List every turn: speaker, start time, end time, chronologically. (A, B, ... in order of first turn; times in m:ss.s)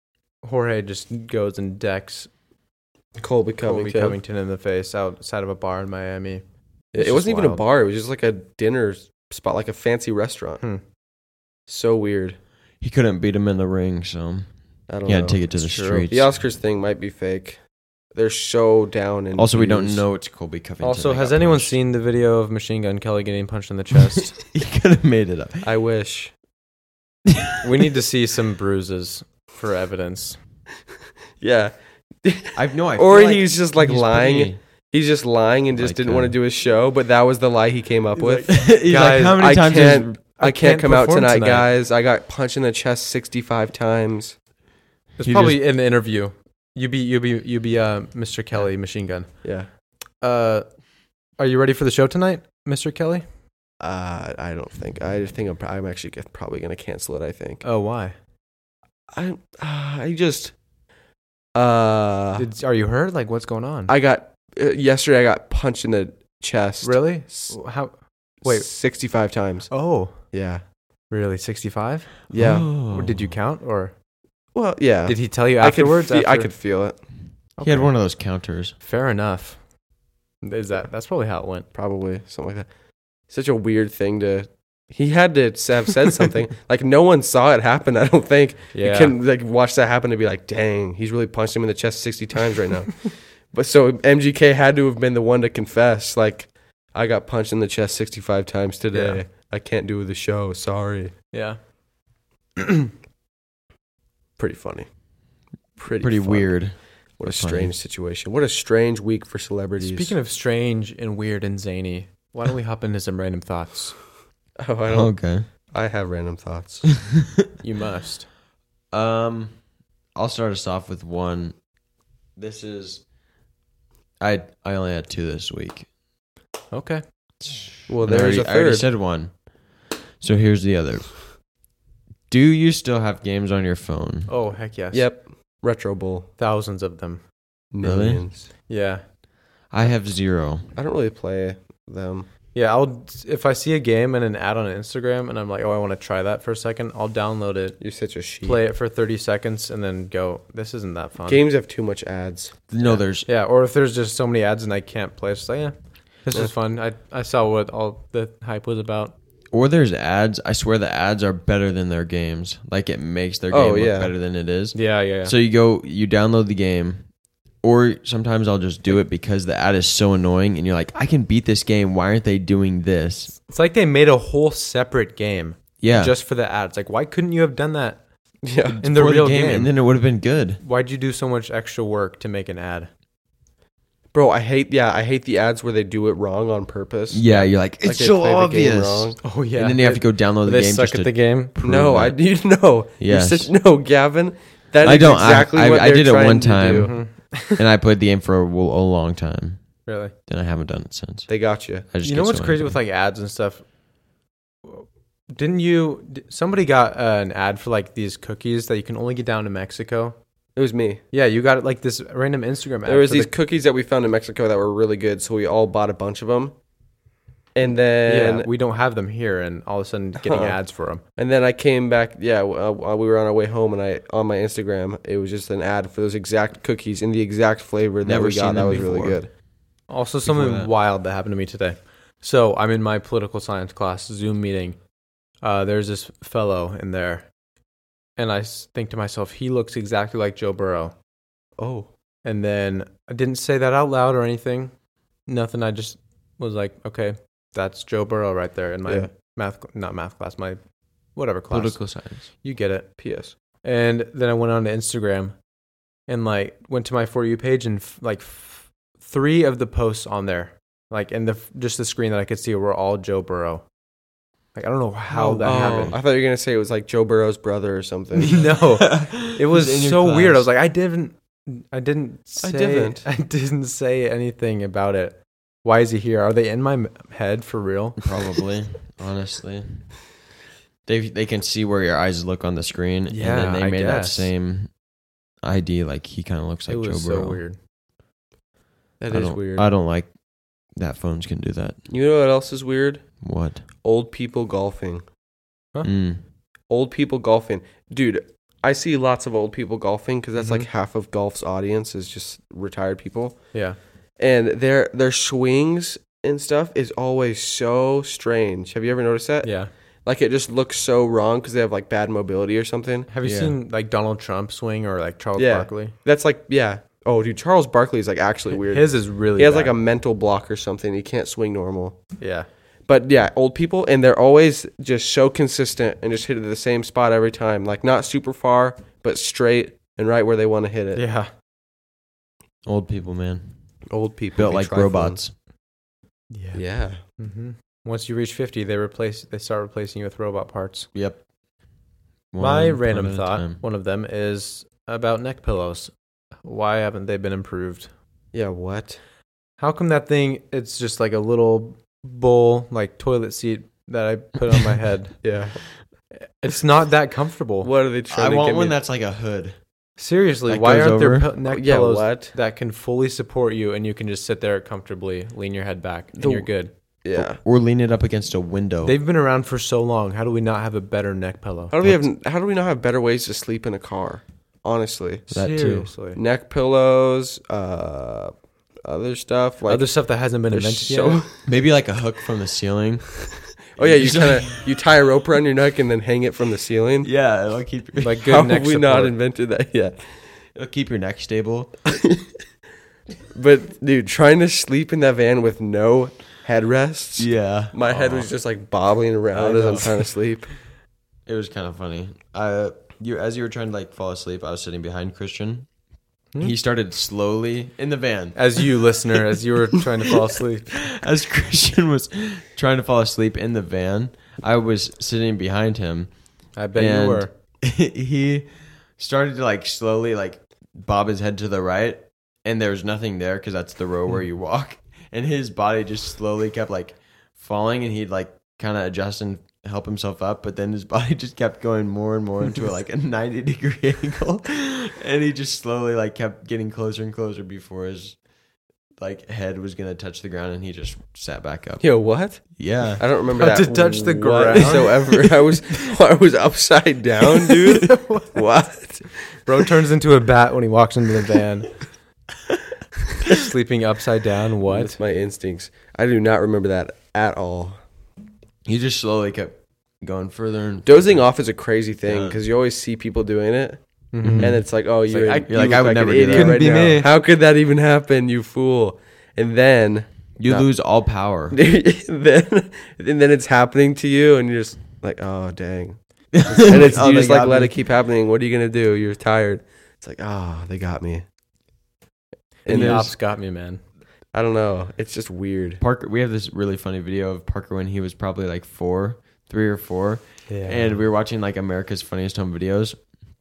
0:00.4-0:02.3 A
0:03.2-0:04.2 B
0:03.6-0:06.4 A
0:07.0-0:10.6 B
0:07.0-0:07.6 A
0:11.7-0:12.4 B
0:12.8-0:14.5 C
0:14.9-0:15.4 B
0:15.0-0:16.3 C
0:15.6-0:16.1 A
0:16.1-0:17.6 B
0:18.2-0:20.0 B
0:19.4-0:21.8 C
0:20.8-0:24.4 A
0:24.5-0:25.7 C
0:25.6-0:26.3 B
0:27.3-0:27.6 C
0:27.6-0:30.4 A
0:31.4-0:44.4 B
0:32.6-0:34.6 C
0:35.7-0:36.3 C
0:38.2-0:39.4 A
0:38.5-0:40.2 C
0:40.4-0:41.7 A
0:45.2-0:49.4 A
0:45.2-0:45.6 C
0:49.4-0:49.7 B
0:50.2-0:50.6 A
0:51.4-0:53.2 A
0:53.8-0:57.6 B
0:57.6-0:58.2 A
0:59.1-1:00.5 B
1:01.6-1:02.5 B
1:02.4-1:03.9 A
1:03.9-1:07.0 B
1:06.8-1:08.7 A
1:08.4-1:10.6 B
1:09.7-1:10.3 A
1:11.1-1:12.3 A
1:12.3-1:12.7 B
1:12.3-1:13.3 C
1:12.9-1:13.9 A
1:14.6-1:17.0 B
1:15.1-1:16.5 A
1:17.6-1:17.9 A
1:17.6-1:18.8 C
1:18.8-1:19.6 A
1:20.4-1:21.7 A
1:21.7-1:22.7 B
1:23.3-1:41.1 B
1:28.7-1:29.2 A
1:38.9-1:39.2 A
1:41.3-1:41.6 A
1:42.6-1:42.9 A
1:44.4-1:44.9 B
1:45.8-1:50.2 B
1:46.0-1:47.7 C
1:49.8-1:54.0 A
1:54.6-1:57.0 B
1:54.9-1:55.5 C
1:57.1-1:57.4 C
1:57.6-1:58.3 A
1:58.9-1:59.6 C
2:00.2-2:01.6 C
2:02.4-2:03.0 C
2:04.2-2:05.9 C
2:06.7-2:07.0 A
2:07.4-2:09.4 C
2:07.9-2:08.9 B
2:10.2-2:11.2 C
2:12.3-2:14.3 C
2:14.3-2:15.0 A
2:14.9-2:16.3 B
2:16.4-2:17.2 A
2:17.7-2:18.5 B
2:17.8-2:18.2 C
2:18.7-2:19.0 A
2:19.7-2:20.6 C
2:20.8-2:22.3 B
2:22.5-2:27.8 A
2:27.8-2:28.6 B
2:28.4-2:31.4 A
2:31.3-2:32.6 B
2:32.7-2:33.3 C
2:32.8-2:39.2 A
2:39.5-2:47.1 C
2:43.5-2:44.1 B
2:44.7-2:45.3 A
2:47.6-2:53.4 C
2:53.5-2:58.0 A
2:55.8-2:56.2 C
2:58.4-2:58.8 B
2:58.7-3:00.6 C
2:58.8-2:59.7 A
3:00.6-3:02.9 A
3:04.1-3:09.2 B
3:07.1-3:12.2 C
3:09.2-3:11.6 A
3:11.6-3:17.0 B
3:13.0-3:13.5 C
3:14.8-3:19.7 C
3:16.7-3:17.6 A
3:19.9-3:20.1 A
3:20.3-3:21.3 C
3:21.3-3:21.9 B
3:21.8-3:22.8 C
3:22.0-3:23.6 A
3:24.6-3:30.2 A
3:30.6-3:31.0 B
3:31.1-3:33.3 A
3:32.9-3:36.5 B
3:37.6-3:38.5 B
3:38.1-3:41.0 A
3:40.2-3:40.6 B
3:41.2-3:49.3 B
3:48.0-3:49.2 C
3:49.9-3:54.8 A
3:50.2-3:50.7 C
3:55.4-3:57.3 A
3:58.2-4:00.9 A
4:01.6-4:01.9 B
4:02.2-4:04.7 A
4:05.3-4:10.6 A
4:11.2-4:11.8 A
4:11.5-4:12.3 C
4:12.4-4:13.0 A
4:13.0-4:13.3 B
4:13.6-4:15.4 A
4:16.1-4:23.6 A
4:24.6-4:26.0 A
4:25.1-4:28.4 B
4:25.4-4:26.0 C
4:28.2-4:38.1 A
4:28.6-4:30.5 C
4:32.4-4:33.1 B
4:38.0-4:40.0 C
4:40.9-4:44.7 C
4:43.1-4:44.3 A
4:45.4-4:47.4 C
4:46.7-4:47.6 A
4:49.0-4:49.7 B
4:49.1-4:50.1 C
4:50.7-4:51.8 C
4:51.9-4:53.2 B
4:53.2-4:53.6 C
4:53.8-4:55.0 B
4:55.8-4:56.2 C
4:56.7-5:03.4 B
5:00.4-5:00.7 A
5:04.2-5:09.5 B
5:09.4-5:09.7 A
5:10.0-5:13.1 B
5:13.1-5:15.9 A
5:13.2-5:13.6 C
5:15.4-5:22.0 B
5:18.5-5:19.7 A
5:22.2-5:22.5 A
5:22.9-5:31.0 B
5:30.9-5:31.3 A
5:32.6-5:33.5 C
5:33.9-5:35.2 B
5:34.4-5:35.3 C
5:36.3-5:36.6 A
5:36.5-5:37.0 B
5:37.2-5:40.9 A
5:40.9-5:41.2 C
5:42.3-5:43.6 C
5:42.4-5:45.9 A
5:46.4-5:47.9 A
5:48.3-5:49.0 B
5:49.6-5:55.2 A
5:55.2-5:55.7 B
5:56.1-5:57.7 A
5:57.6-5:58.8 B
5:58.1-5:59.6 C
6:00.0-6:06.7 A
6:00.5-6:01.3 C
6:01.4-6:02.3 B
6:06.2-6:06.5 B
6:07.0-6:07.4 B
6:07.2-6:09.0 C
6:08.8-6:11.8 A
6:11.7-6:15.3 B
6:15.3-6:15.9 C
6:15.3-6:16.2 A
6:16.1-6:18.3 B
6:18.8-6:21.4 B
6:19.7-6:21.2 A
6:21.4-6:24.7 C
6:23.7-6:27.1 B
6:27.0-6:28.2 C
6:28.0-6:29.1 A
6:28.2-6:30.2 B
6:30.6-6:31.8 C
6:33.3-6:40.5 B
6:37.2-6:38.3 C
6:39.3-6:40.1 C
6:41.3-6:45.7 C
6:46.4-6:48.6 C
6:48.4-6:50.7 A
6:50.7-6:56.1 C
6:56.6-6:57.3 A
6:56.8-7:18.2 C
7:19.0-7:21.9 C
7:21.8-7:29.1 B
7:22.6-7:23.0 C
7:23.4-7:25.0 A
7:27.7-7:28.4 A
7:29.5-7:31.8 A
7:33.3-7:35.0 A
7:34.7-7:37.8 B
7:38.6-7:41.2 C
7:40.8-7:43.8 B
7:42.1-7:42.4 C
7:44.1-7:47.1 A
7:44.2-7:44.6 C
7:44.4-7:50.7 B
7:45.5-7:46.9 C
7:50.4-7:51.6 C
7:51.5-7:56.0 B
7:56.3-7:57.7 C
7:56.5-7:57.0 A
7:56.5-8:01.2 B
8:02.6-8:03.1 B
8:02.6-8:03.8 A
8:02.7-8:03.2 C
8:04.3-8:05.8 B
8:05.8-8:13.0 C
8:10.5-8:11.0 A